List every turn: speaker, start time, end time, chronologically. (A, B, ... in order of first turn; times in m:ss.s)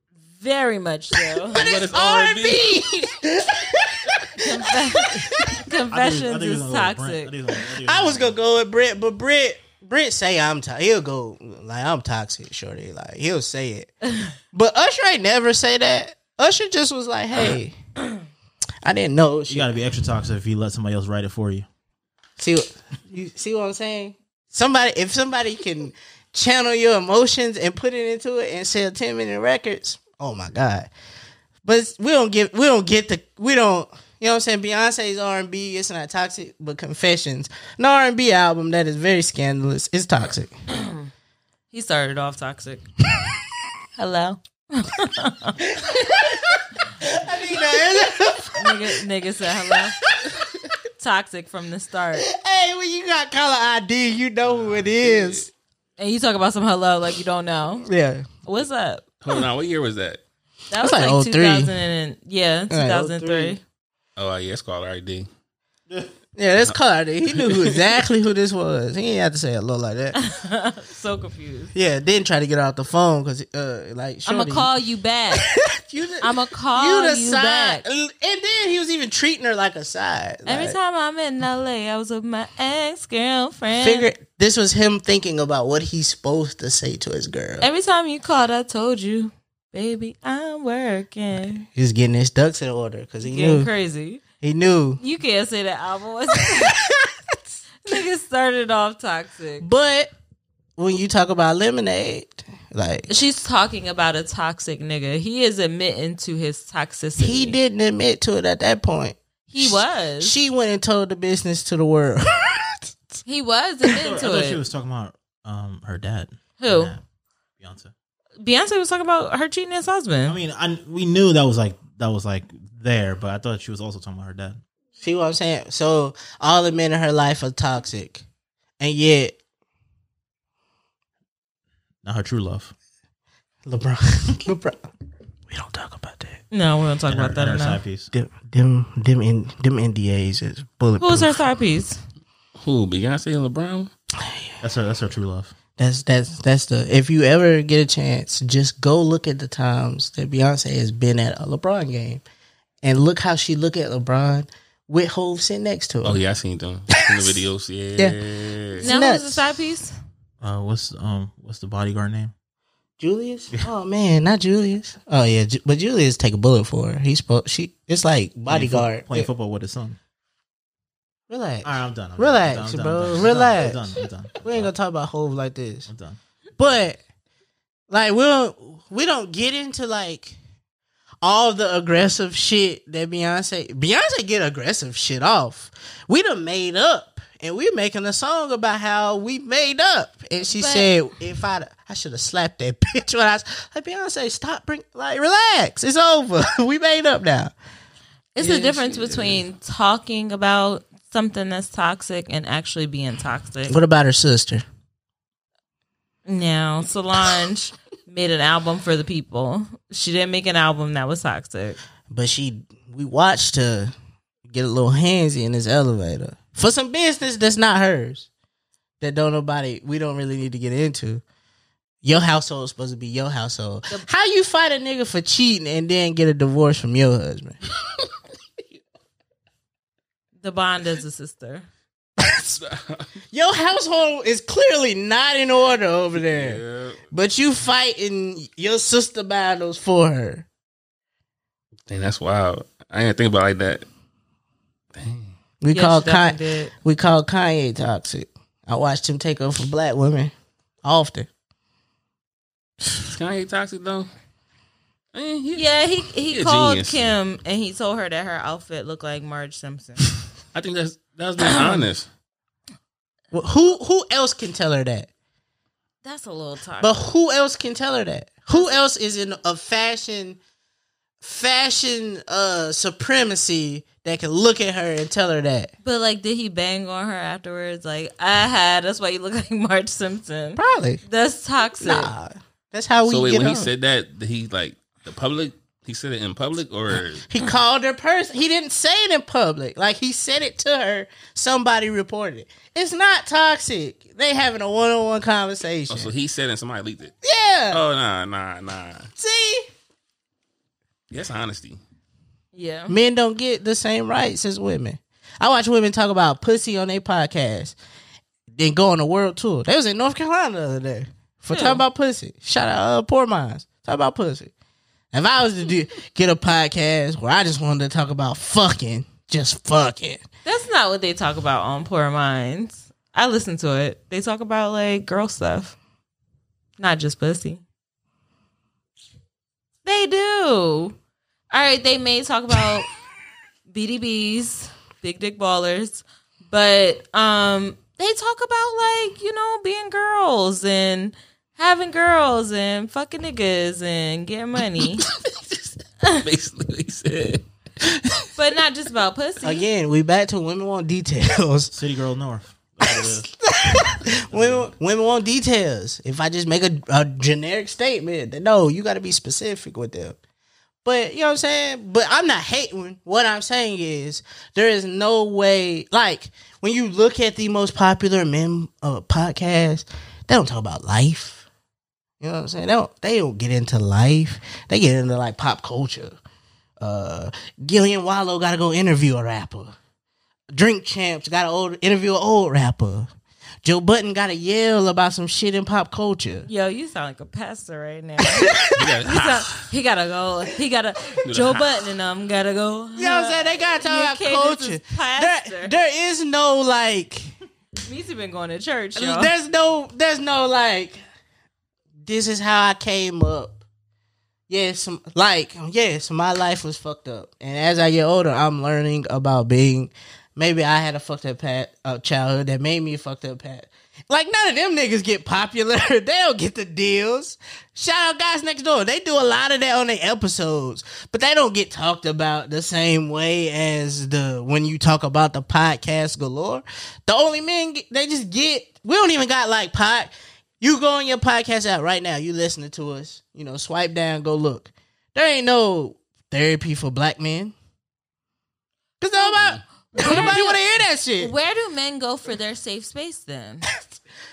0:00.3-0:01.6 A
0:01.4-0:05.6 B
0:01.5-0:02.8 C
0:04.4-0:07.3 A
0:05.9-0:08.4 D
0:07.8-0:13.9 B
0:14.5-0:17.7 B
0:18.8-0:19.7 B
0:19.5-0:21.7 D
0:22.4-0:30.9 B
0:31.6-0:40.5 B
0:40.7-0:41.1 A
0:41.7-0:42.8 A
0:44.0-0:45.6 A
0:45.6-0:49.0 B
0:48.6-0:50.0 A
0:49.7-0:50.4 B
0:51.0-0:52.3 A
0:52.3-0:55.5 B
0:54.5-0:55.4 C
0:56.0-0:57.9 A
0:57.8-0:58.3 B
0:58.4-0:59.0 A
0:59.2-1:00.2 C
1:00.7-1:03.6 A
1:00.8-1:01.7 B
1:02.7-1:03.6 B
1:04.2-1:05.3 C
1:06.4-1:10.2 B
1:07.3-1:07.9 C
1:10.1-1:11.7 A
1:11.7-1:14.7 B
1:14.2-1:15.4 A
1:15.4-1:20.8 B
1:16.2-1:17.8 A
1:20.4-1:24.1 A
1:23.8-1:27.7 B
1:27.6-1:31.6 A
1:31.7-1:33.7 B
1:33.2-1:34.2 A
1:34.4-1:35.0 B
1:35.0-1:36.7 A
1:36.4-1:37.3 B
1:37.8-1:39.7 A
1:39.6-1:40.1 B
1:40.8-1:43.1 B
1:43.1-1:47.6 A
1:47.2-1:53.2 B
1:49.5-1:50.3 A
1:53.2-1:54.6 A
1:54.0-1:57.0 D
1:56.6-1:56.9 A
1:57.6-1:57.9 D
1:58.4-2:00.4 A
2:00.3-2:04.6 D
2:05.0-2:08.2 B
2:08.8-2:09.3 B
2:12.0-2:12.7 D
2:13.6-2:14.8 B
2:15.5-2:16.4 B
2:16.5-2:17.8 A
2:17.1-2:18.1 D
2:18.1-2:21.4 B
2:21.0-2:22.0 A
2:22.6-2:23.9 C
2:24.2-2:24.5 B
2:24.6-2:25.5 D
2:25.8-2:32.2 B
2:32.8-2:36.2 B
2:36.0-2:38.9 C
2:38.8-2:39.4 B
2:38.8-2:39.9 A
2:40.4-2:42.3 D
2:43.0-2:49.3 B
2:48.5-2:50.0 D
2:51.3-2:55.9 B
2:51.6-2:54.7 D
2:55.9-2:56.2 D
2:56.6-2:57.0 B
2:57.9-3:00.4 B
3:01.2-3:17.5 B
3:10.5-3:10.9 A
3:18.3-3:23.8 A
3:23.7-3:24.6 B
3:26.3-3:31.8 A
3:32.1-3:33.9 B
3:34.5-3:38.3 B
3:39.0-3:41.2 B
3:42.0-3:47.6 B
3:50.4-3:51.7 A
3:52.2-3:52.6 B
3:52.6-3:53.1 C
3:53.3-4:00.4 B
3:56.2-3:57.0 C
4:01.9-4:03.8 C
4:04.9-4:05.3 C
4:05.6-4:10.3 B
4:05.7-4:06.7 A
4:10.8-4:11.3 B
4:13.0-4:14.1 C
4:15.1-4:15.6 C
4:15.5-4:20.0 A
4:16.3-4:17.1 C
4:20.5-4:22.1 C
4:21.4-4:21.8 A
4:23.3-4:25.1 B
4:26.0-4:26.9 A
4:26.8-4:30.4 B
4:31.2-4:35.7 B
4:35.8-4:42.1 A
4:40.6-4:41.0 B
4:41.8-4:43.7 B
4:43.0-4:47.3 C
4:46.9-4:56.1 B
4:55.9-4:57.1 C
4:57.2-4:57.8 B
4:57.7-4:59.1 C
4:59.2-4:59.6 B
5:01.1-5:01.8 C
5:02.5-5:02.9 A
5:02.9-5:07.8 B
5:08.5-5:14.5 B
5:11.5-5:11.8 A
5:15.1-5:20.2 B
5:20.4-5:25.8 A
5:26.8-5:27.6 A
5:29.8-5:30.9 A
5:31.5-5:32.9 A
5:33.7-5:45.0 A
5:46.2-5:47.4 C
5:48.3-5:49.6 A
5:49.4-5:51.7 B
5:51.7-5:53.3 D
5:52.9-6:00.2 B
5:54.2-5:54.7 D
6:00.8-6:11.4 B
6:12.2-6:16.2 B
6:16.8-6:19.7 B
6:20.5-6:23.1 B
6:23.6-6:26.5 B
6:26.4-6:35.7 A
6:28.3-6:28.9 B
6:28.8-6:29.6 C
6:31.2-6:31.6 C
6:33.0-6:37.3 B
6:37.8-6:39.3 A
6:39.0-6:41.0 B
6:42.0-6:43.6 B
6:44.5-7:17.5 B
7:19.0-7:21.3 B
7:19.9-7:20.6 A
7:21.2-7:23.6 A